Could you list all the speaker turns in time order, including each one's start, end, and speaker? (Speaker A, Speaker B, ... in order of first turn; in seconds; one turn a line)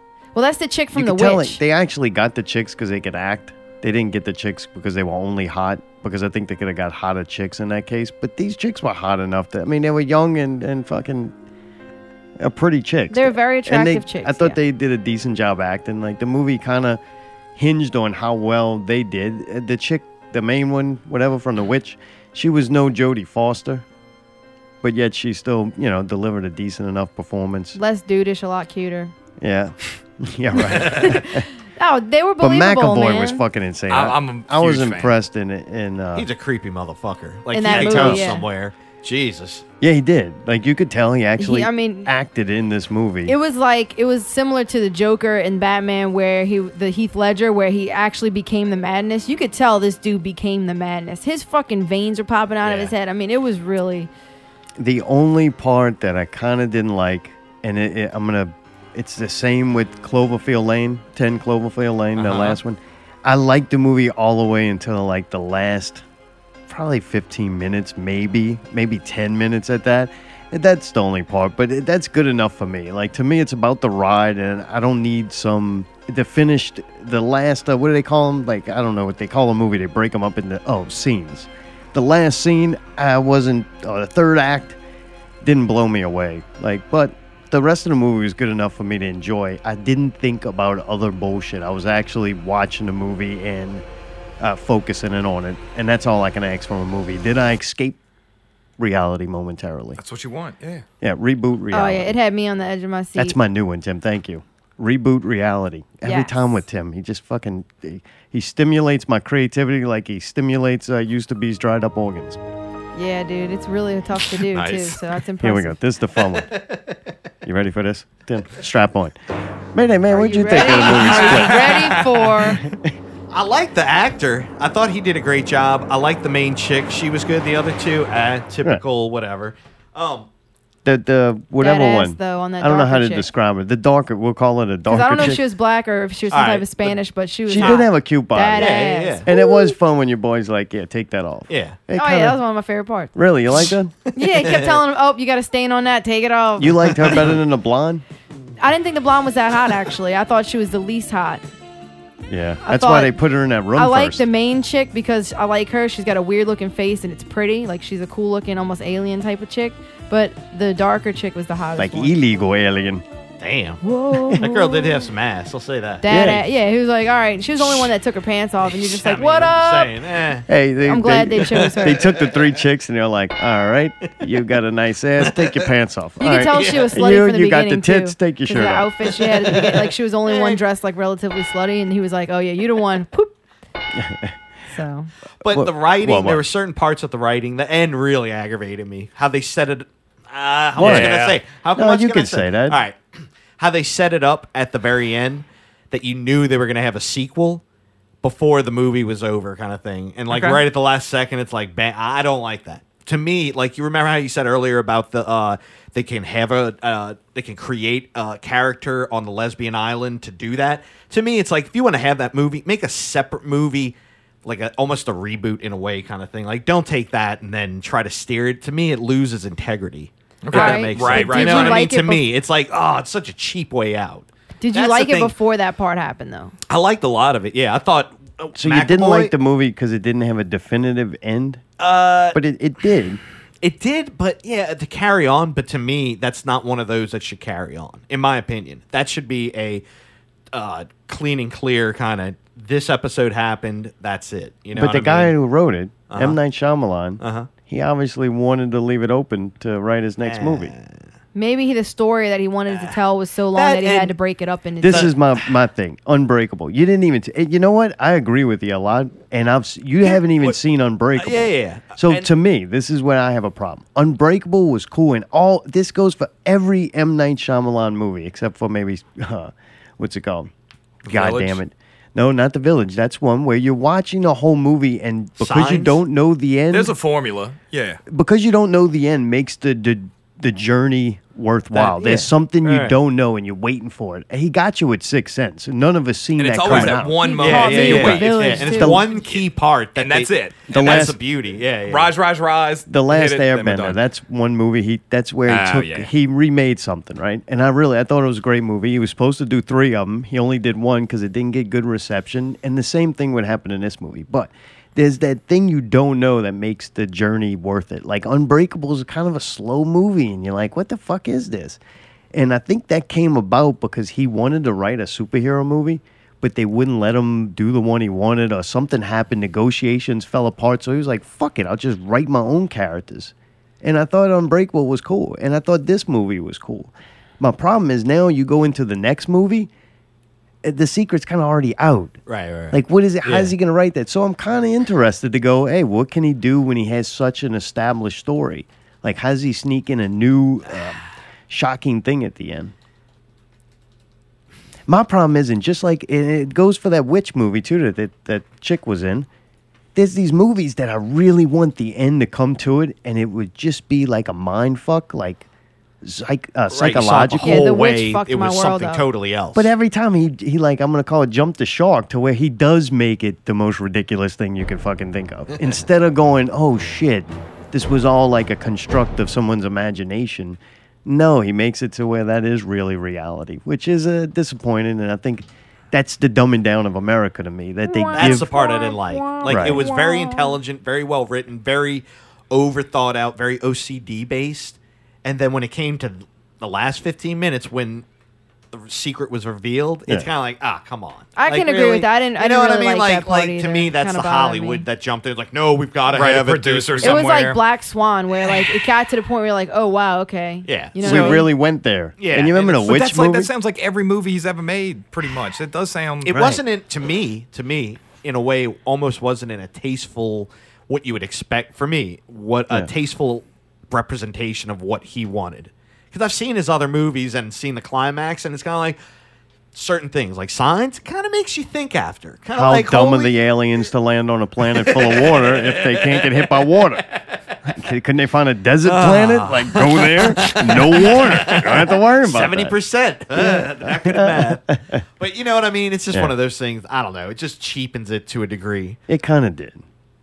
Speaker A: 0.3-1.6
Speaker B: 0.9-11.3
Speaker B: 12.4-17.0
Speaker A: 13.1-14.6
Speaker B: 17.6-23.8
Speaker B: 24.8-27.8
Speaker A: 27.7-29.1
Speaker B: 29.4-31.4
Speaker C: 30.7-31.0
Speaker A: 30.8-33.4
Speaker B: 32.4-36.3
Speaker D: 33.9-35.1
Speaker C: 36.1-39.6
Speaker A: 37.5-38.5
Speaker B: 37.7-38.4
Speaker B: 39.8-43.4
Speaker A: 41.4-42.1
Speaker A: 43.2-54.1
Speaker C: 52.6-52.9
Speaker B: 54.8-66.0
Speaker C: 62.2-62.6
Speaker B: 66.7-84.8
Speaker B: 85.4-93.8
Speaker B: 94.4-98.0
Speaker B: 98.8-100.0
Speaker D: 100.0-100.8
Speaker B: 101.0-102.1
Speaker A: 101.7-103.4
Speaker B: 103.2-112.4
Speaker A: 106.0-106.6
Speaker A: 112.9-115.8
Speaker D: 114.5-115.0
Speaker B: 115.4-116.5
Speaker C: 116.3-117.0
Speaker B: 117.4-119.2
Speaker B: 119.7-121.8
Speaker A: 120.1-122.6
Speaker C: 120.5-122.0
Speaker D: 121.7-122.3
Speaker B: 122.6-122.9
Speaker C: 123.3-130.3
Speaker B: 130.8-135.4
Speaker A: 131.6-133.3
Speaker A: 134.9-139.7
Speaker C: 136.3-136.9
Speaker B: 137.4-142.4
Speaker C: 137.6-137.8
Speaker C: 138.6-139.3
Speaker C: 141.5-141.8
Speaker A: 141.9-143.1
Speaker B: 143.1-143.9
Speaker C: 143.5-144.8
Speaker A: 144.2-147.1
Speaker B: 146.6-148.0
Speaker C: 146.9-147.4
Speaker A: 148.6-151.4
Speaker B: 152.3-154.2
Speaker A: 152.6-153.2
Speaker A: 153.7-162.1
Speaker B: 161.8-163.0
Speaker C: 163.4-166.4
Speaker A: 163.8-165.1
Speaker A: 166.0-170.0
Speaker B: 166.0-166.4
Speaker C: 167.6-167.9
Speaker C: 168.6-170.5
Speaker B: 170.5-178.9
Speaker A: 170.8-172.1
Speaker C: 171.4-172.6
Speaker C: 175.2-175.7
Speaker A: 176.2-183.3
Speaker C: 176.5-177.1
Speaker C: 179.1-180.6
Speaker B: 183.9-184.4
Speaker A: 184.7-185.1
Speaker C: 185.4-197.6
Speaker B: 185.5-186.4
Speaker B: 190.8-191.2
Speaker D: 190.8-191.4
Speaker B: 191.7-192.8
Speaker C: 198.2-225.3
Speaker D: 200.3-200.6
Speaker D: 220.4-221.9
Speaker A: 220.5-222.3
Speaker A: 224.6-226.5
Speaker C: 226.7-229.3
Speaker B: 228.6-231.6
Speaker C: 231.8-232.4
Speaker B: 232.3-233.2
Speaker C: 233.6-239.8
Speaker C: 240.5-245.3
Speaker B: 244.7-250.7
Speaker C: 246.1-246.4
Speaker C: 247.2-247.5
Speaker C: 250.2-251.0
Speaker A: 251.3-255.2
Speaker C: 252.7-253.0
Speaker C: 253.5-254.1
Speaker B: 254.8-270.5
Speaker C: 254.9-255.2
Speaker C: 260.0-260.5
Speaker C: 261.2-262.3
Speaker B: 271.1-276.9
Speaker D: 271.1-271.6
Speaker C: 275.4-276.0
Speaker D: 276.7-278.0
Speaker B: 278.1-287.2
Speaker C: 281.7-282.9
Speaker D: 286.4-288.6
Speaker C: 286.7-292.1
Speaker A: 287.1-289.2
Speaker B: 288.6-289.1
Speaker D: 289.9-291.1
Speaker B: 290.7-291.2
Speaker D: 291.9-294.0
Speaker B: 292.9-311.8
Speaker D: 295.5-296.1
Speaker B: 312.3-329.7
Speaker B: 330.6-332.2
Speaker C: 332.3-333.5
Speaker B: 332.7-342.7
Speaker B: 344.9-349.3
Speaker B: 349.9-355.4
Speaker B: 356.0-357.7
Speaker C: 356.7-359.7
Speaker A: 357.4-359.1
Speaker B: 359.5-378.5
Speaker A: 377.9-380.6
Speaker C: 378.1-388.0
Speaker B: 379.4-379.8
Speaker C: 388.7-397.3
Speaker A: 391.4-394.9
Speaker D: 396.1-397.6
Speaker A: 397.0-401.5
Speaker C: 400.6-401.3
Speaker B: 401.0-403.5
Speaker D: 401.1-401.4
Speaker C: 402.2-403.0
Speaker D: 402.8-406.4
Speaker C: 406.2-419.0
Speaker B: 406.3-406.6
Speaker C: 419.7-423.4
Speaker B: 422.5-427.1
Speaker C: 424.7-426.7
Speaker B: 427.6-432.7
Speaker C: 428.8-434.6
Speaker B: 433.3-435.0
Speaker C: 435.2-439.0
Speaker B: 439.1-439.8